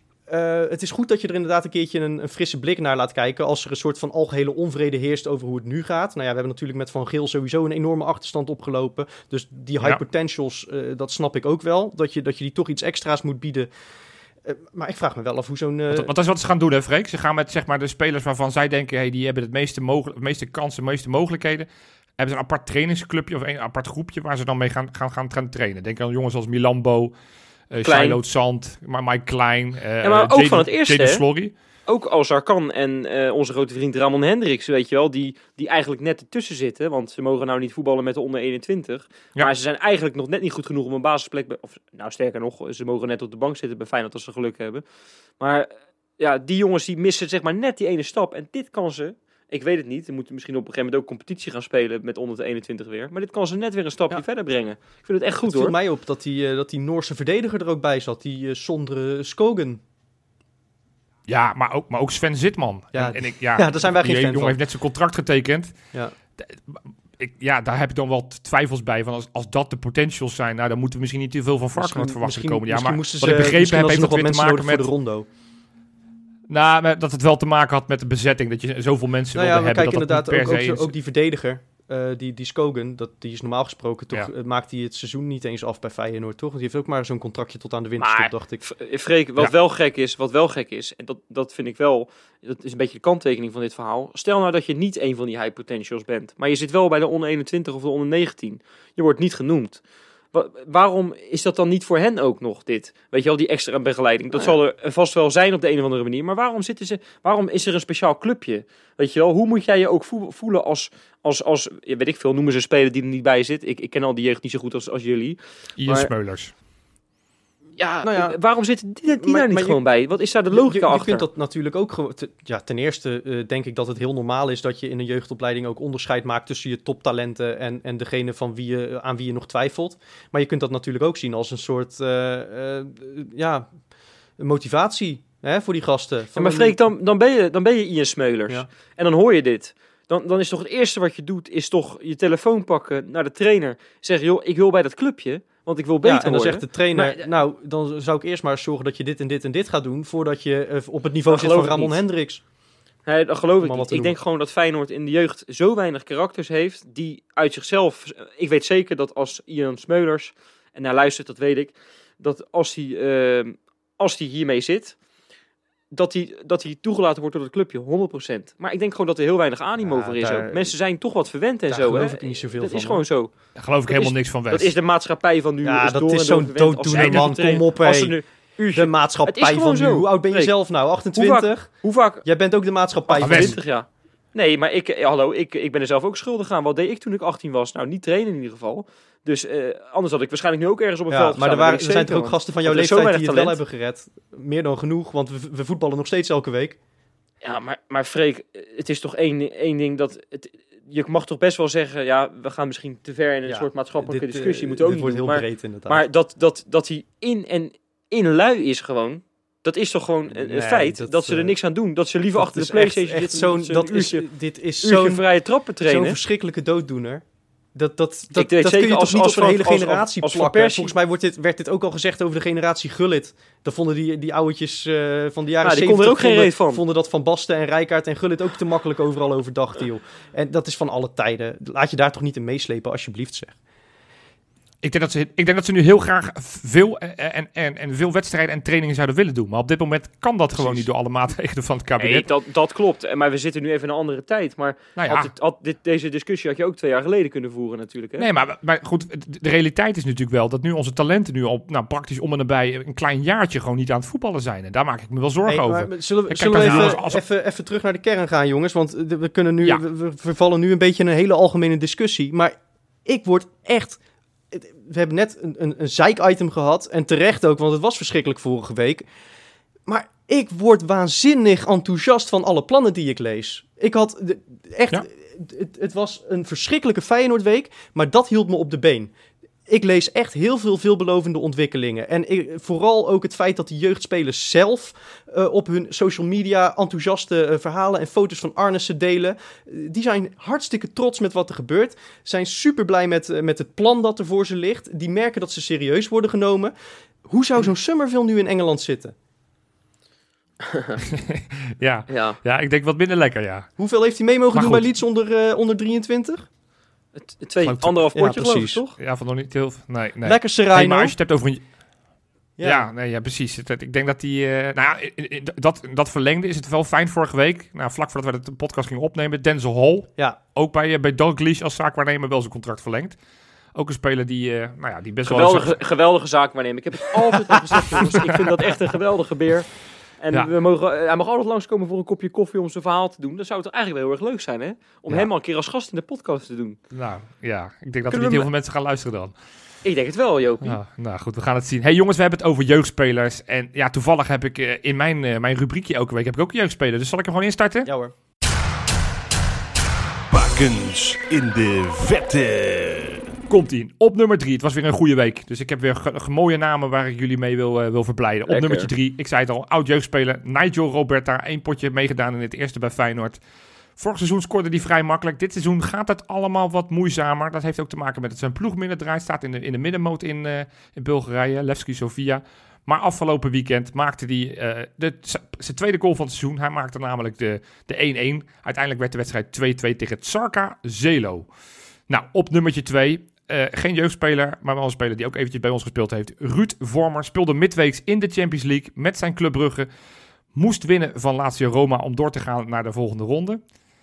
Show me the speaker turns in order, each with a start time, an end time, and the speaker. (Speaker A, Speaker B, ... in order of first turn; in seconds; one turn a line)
Speaker A: 0.3-13.7
Speaker A: 14.4-16.1
Speaker B: 15.9-21.7
Speaker B: 22.2-27.1
Speaker B: 27.7-31.5
Speaker C: 27.8-28.2
Speaker C: 30.0-31.2
Speaker C: 31.9-44.8
Speaker C: 45.4-55.7
Speaker A: 55.4-59.8
Speaker B: 61.3-65.7
Speaker A: 62.9-64.6
Speaker B: 66.4-74.9
Speaker A: 71.8-75.3
Speaker B: 76.5-80.9
Speaker A: 79.3-88.6
Speaker C: 88.0-99.8
Speaker C: 100.3-116.1
Speaker B: 115.8-116.5
Speaker C: 117.8-121.3
Speaker A: 118.0-118.4
Speaker A: 119.2-119.8
Speaker A: 120.5-133.7
Speaker A: 134.4-136.8
Speaker C: 136.3-147.3
Speaker A: 146.0-152.4
Speaker C: 151.3-152.0
Speaker C: 153.1-165.0
Speaker A: 153.6-154.2
Speaker C: 165.9-173.3
Speaker A: 169.8-170.7
Speaker A: 171.7-173.0
Speaker B: 173.6-174.7
Speaker C: 173.9-180.5
Speaker A: 175.6-178.2
Speaker B: 176.9-177.3
Speaker A: 178.7-183.6
Speaker C: 181.1-182.2
Speaker C: 183.1-193.6
Speaker B: 183.2-183.6
Speaker A: 191.1-196.8
Speaker C: 197.4-214.3
Speaker A: 203.4-206.0
Speaker A: 210.3-211.5
Speaker A: 212.3-215.2
Speaker C: 214.8-216.2
Speaker A: 215.8-217.2
Speaker A: 217.7-233.5
Speaker C: 218.3-220.9
Speaker C: 225.6-226.8
Speaker B: 234.8-242.3
Speaker A: 240.6-240.8
Speaker C: 242.0-248.3
Speaker B: 245.0-245.3
Speaker B: 248.2-257.2
Speaker A: 255.4-264.0
Speaker A: 264.5-269.1
Speaker A: 269.9-279.1
Speaker A: 279.7-296.7
Speaker A: 297.2-299.1
Speaker C: 300.6-301.0
Speaker B: 301.0-303.7
Speaker C: 302.1-302.4
Speaker A: 303.8-306.5
Speaker B: 304.5-304.8
Speaker C: 307.2-308.9
Speaker B: 307.6-308.0
Speaker A: 308.1-308.8
Speaker B: 309.0-311.6
Speaker A: 310.2-311.1
Speaker A: 312.6-312.9
Speaker B: 312.6-323.1
Speaker B: 323.7-325.8
Speaker C: 325.2-336.8
Speaker B: 336.9-339.3
Speaker C: 338.1-338.4
Speaker C: 339.8-340.8
Speaker B: 340.6-347.9
Speaker A: 347.8-348.1
Speaker D: 350.3-353.2
Speaker B: 353.5-363.4
Speaker C: 358.4-358.9
Speaker B: 364.0-381.5
Speaker B: 382.1-389.9
Speaker B: 390.5-393.6